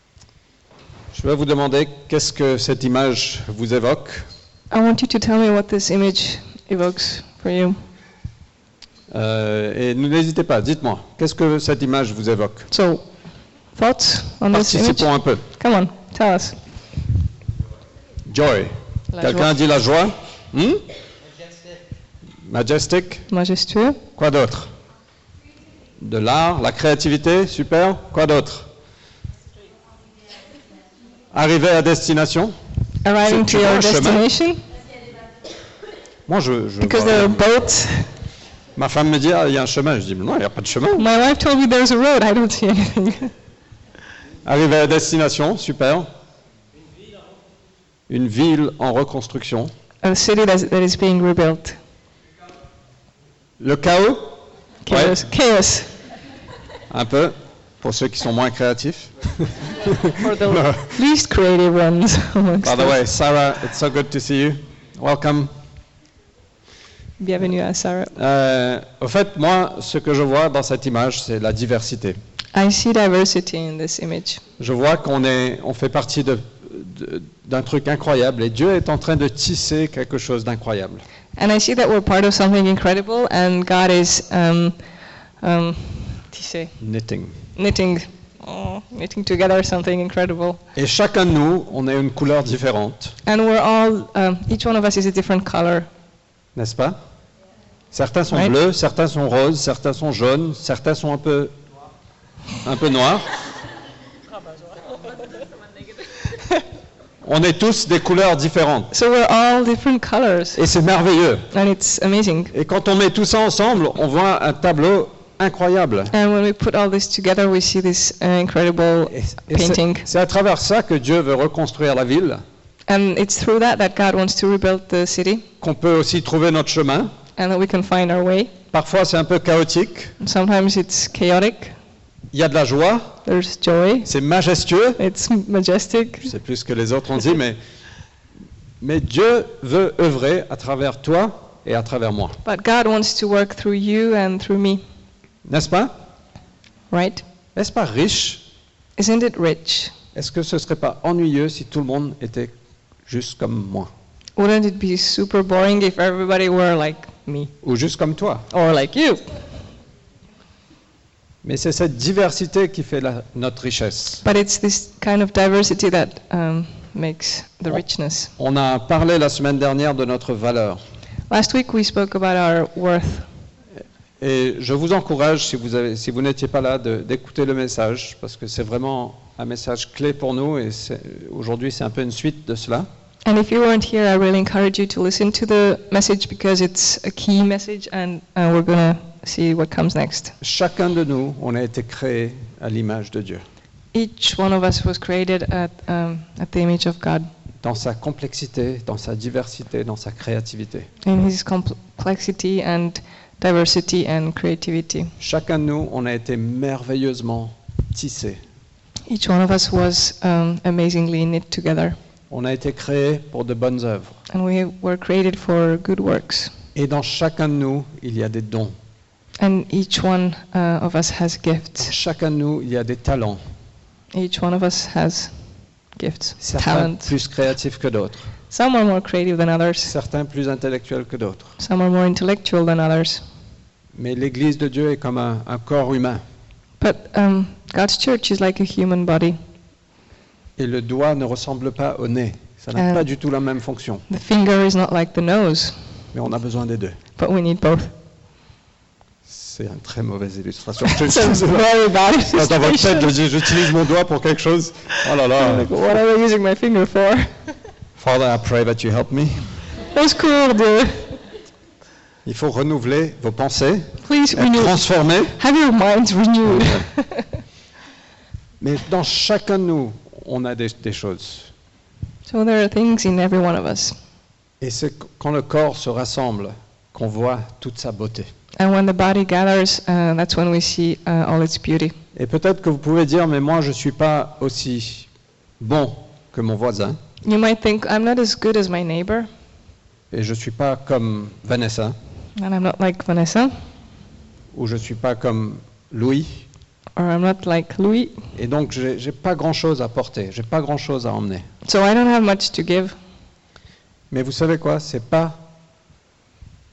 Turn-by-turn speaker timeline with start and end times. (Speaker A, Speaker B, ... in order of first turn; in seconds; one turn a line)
Speaker A: 1.1-4.3
Speaker B: 4.7-7.8
Speaker A: 9.1-12.7
Speaker B: 12.7-13.1
Speaker B: 13.7-16.6
Speaker A: 14.5-15.4
Speaker A: 18.2-20.8
Speaker B: 19.1-19.5
Speaker A: 22.4-23.3
Speaker B: 23.3-24.0
Speaker A: 24.1-24.7
Speaker A: 26.0-28.7
Speaker A: 31.3-32.5
Speaker B: 33.0-34.6
Speaker A: 33.2-34.2
Speaker A: 36.3-37.5
Speaker B: 36.8-38.1
Speaker A: 38.8-41.0
Speaker B: 40.9-43.3
Speaker A: 44.4-46.1
Speaker A: 48.1-49.7
Speaker B: 50.0-51.8
Speaker A: 53.6-54.4
Speaker B: 54.8-55.9
Speaker A: 54.9-55.2
Speaker A: 56.9-61.0
Speaker B: 60.2-63.0
Speaker A: 62.6-65.5
Speaker B: 67.2-68.1
Speaker A: 68.1-72.2
Speaker B: 72.5-74.4
Speaker A: 74.6-81.0
Speaker B: 81.3-84.8
Speaker B: 85.4-86.7
Speaker A: 86.8-87.5
Speaker B: 87.5-90.6
Speaker A: 90.7-93.2
Speaker B: 93.2-95.9
Speaker A: 96.5-97.0
Speaker A: 97.9-101.5
Speaker A: 102.6-103.3
Speaker A: 107.2-108.9
Speaker B: 108.9-110.6
Speaker A: 110.5-111.5
Speaker B: 111.5-112.5
Speaker A: 112.5-116.1
Speaker B: 116.1-120.1
Speaker A: 119.1-122.4
Speaker B: 122.9-125.5
Speaker A: 125.6-127.1
Speaker B: 127.3-128.5
Speaker A: 128.7-130.1
Speaker B: 130.2-131.8
Speaker A: 132.3-133.2
Speaker B: 133.2-134.1
Speaker A: 134.0-135.0
Speaker B: 135.0-136.3
Speaker A: 136.2-137.6
Speaker A: 138.8-142.4
Speaker B: 142.4-144.8
Speaker A: 145.4-145.9
Speaker B: 146.9-147.2
Speaker A: 147.6-148.4
Speaker B: 149.0-149.9
Speaker A: 150.1-152.5
Speaker A: 153.1-153.9
Speaker B: 154.3-157.5
Speaker A: 157.6-158.5
Speaker B: 158.5-159.4
Speaker A: 161.4-164.2
Speaker B: 164.2-168.3
Speaker A: 168.4-170.8
Speaker B: 171.3-173.3
Speaker A: 174.2-182.9
Speaker B: 183.2-190.3
Speaker A: 190.4-193.4
Speaker B: 193.9-197.3
Speaker A: 197.6-200.9
Speaker B: 201.0-205.1
Speaker A: 205.2-208.4
Speaker B: 209.1-212.0
Speaker A: 212.3-214.2
Speaker B: 214.3-216.5
Speaker A: 216.7-218.8
Speaker B: 219.4-221.9
Speaker A: 221.8-223.4
Speaker B: 224.1-225.3
Speaker B: 225.9-227.1
Speaker A: 226.4-228.3
Speaker B: 228.5-229.9
Speaker A: 229.8-231.6
Speaker B: 231.6-233.2
Speaker A: 233.9-236.2
Speaker B: 236.8-239.4
Speaker A: 240.6-244.1
Speaker B: 242.7-243.1
Speaker B: 244.1-245.9
Speaker A: 246.1-247.0
Speaker B: 247.2-247.9
Speaker A: 249.3-255.7
Speaker B: 250.8-253.7
Speaker B: 255.3-257.5
Speaker A: 258.0-259.5
Speaker B: 259.9-261.2
Speaker A: 262.2-265.3
Speaker B: 264.0-267.3
Speaker A: 266.4-266.8
Speaker A: 268.6-271.5
Speaker B: 272.2-273.9
Speaker A: 274.6-278.3
Speaker B: 278.6-281.9
Speaker A: 282.1-287.0
Speaker B: 287.2-289.3
Speaker A: 290.1-291.9
Speaker B: 292.4-293.5
Speaker A: 294.5-296.4
Speaker B: 296.9-298.2
Speaker A: 298.3-301.5
Speaker B: 301.6-302.9
Speaker A: 304.1-305.4